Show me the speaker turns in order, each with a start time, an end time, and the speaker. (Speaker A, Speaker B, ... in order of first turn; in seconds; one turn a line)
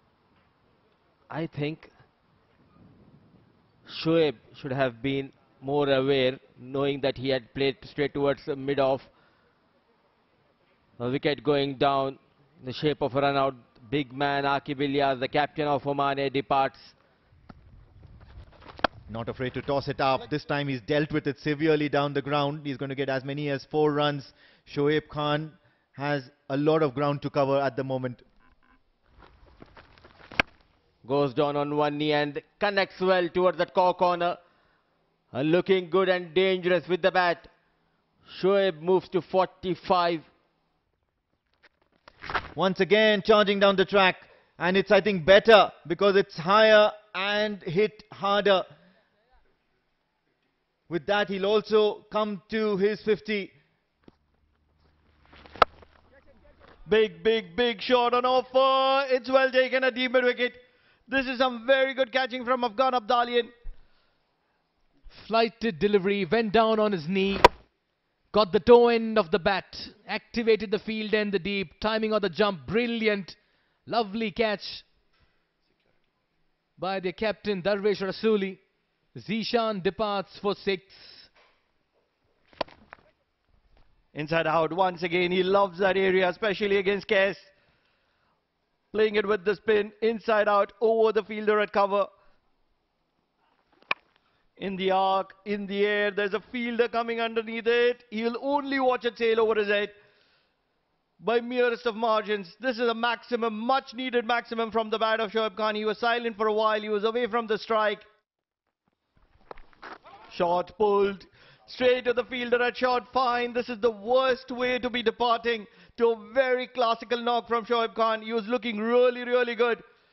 Speaker A: 1.3-1.9
Speaker A: 3.8-9.1
Speaker A: 11.0-16.9
Speaker B: 19.1-28.2
Speaker A: 31.0-34.4
Speaker A: 35.3-37.5
Speaker A: 38.2-40.2
Speaker B: 42.5-48.6
Speaker B: 50.9-53.5
Speaker C: 56.9-63.5
Speaker D: 65.1-67.5
Speaker D: 68.3-74.8
Speaker D: 76.8-78.6
Speaker D: 79.1-81.3
Speaker C: 84.1-87.5
Speaker C: 88.9-92.1
Speaker C: 94.6-99.9
Speaker C: 101.2-108.0
Speaker C: 110.3-119.8